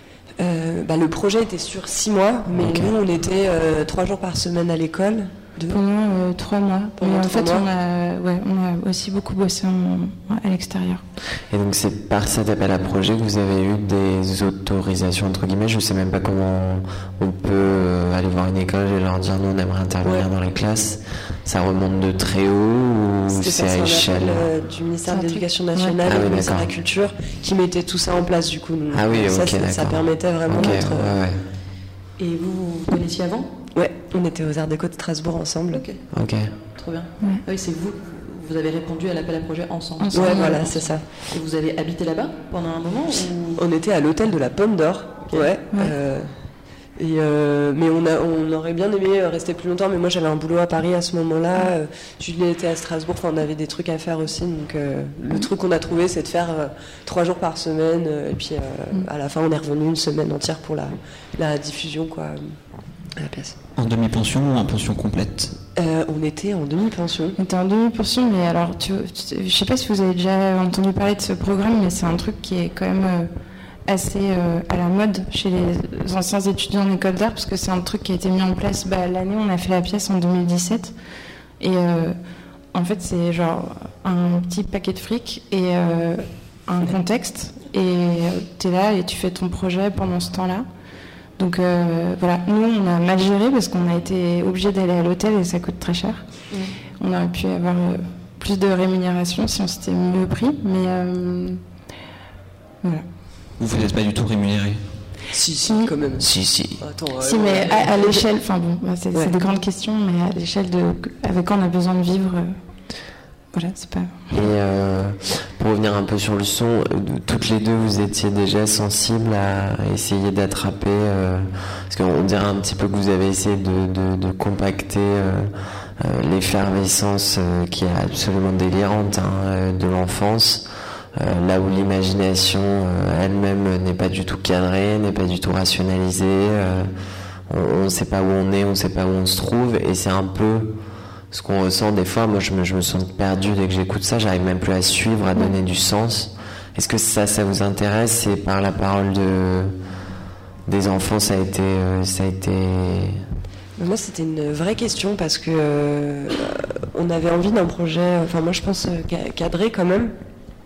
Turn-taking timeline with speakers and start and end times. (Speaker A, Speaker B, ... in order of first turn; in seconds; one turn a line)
Speaker A: 0.4-5.8
Speaker B: 2.5-2.9
Speaker C: 5.7-11.0
Speaker A: 7.0-7.7
Speaker B: 11.5-24.5
Speaker A: 23.3-31.1
Speaker C: 25.1-25.9
Speaker B: 26.0-26.7
Speaker B: 28.9-31.4
Speaker D: 32.2-33.6
Speaker A: 33.7-35.8
Speaker D: 35.7-36.0
Speaker B: 36.1-36.5
Speaker D: 36.7-43.6
Speaker C: 40.0-40.6
Speaker A: 40.1-41.1
Speaker A: 43.5-46.3
Speaker A: 47.0-62.6
Speaker A: 63.1-63.5
Speaker E: 63.8-65.5
Speaker A: 65.8-67.4
Speaker C: 67.4-73.3
Speaker C: 73.9-80.9
Speaker C: 81.6-82.2
Speaker C: 82.7-90.7
Speaker C: 91.4-96.2
Speaker C: 97.0-101.6
Speaker E: 103.6-104.8
Speaker A: 105.3-108.2
Speaker C: 105.7-105.9
Speaker E: 106.2-106.8
Speaker C: 107.2-112.6
Speaker C: 113.5-114.4
Speaker B: 114.3-136.9
Speaker B: 137.5-140.8
Speaker B: 141.3-149.8
Speaker B: 150.7-153.2
Speaker A: 153.8-160.1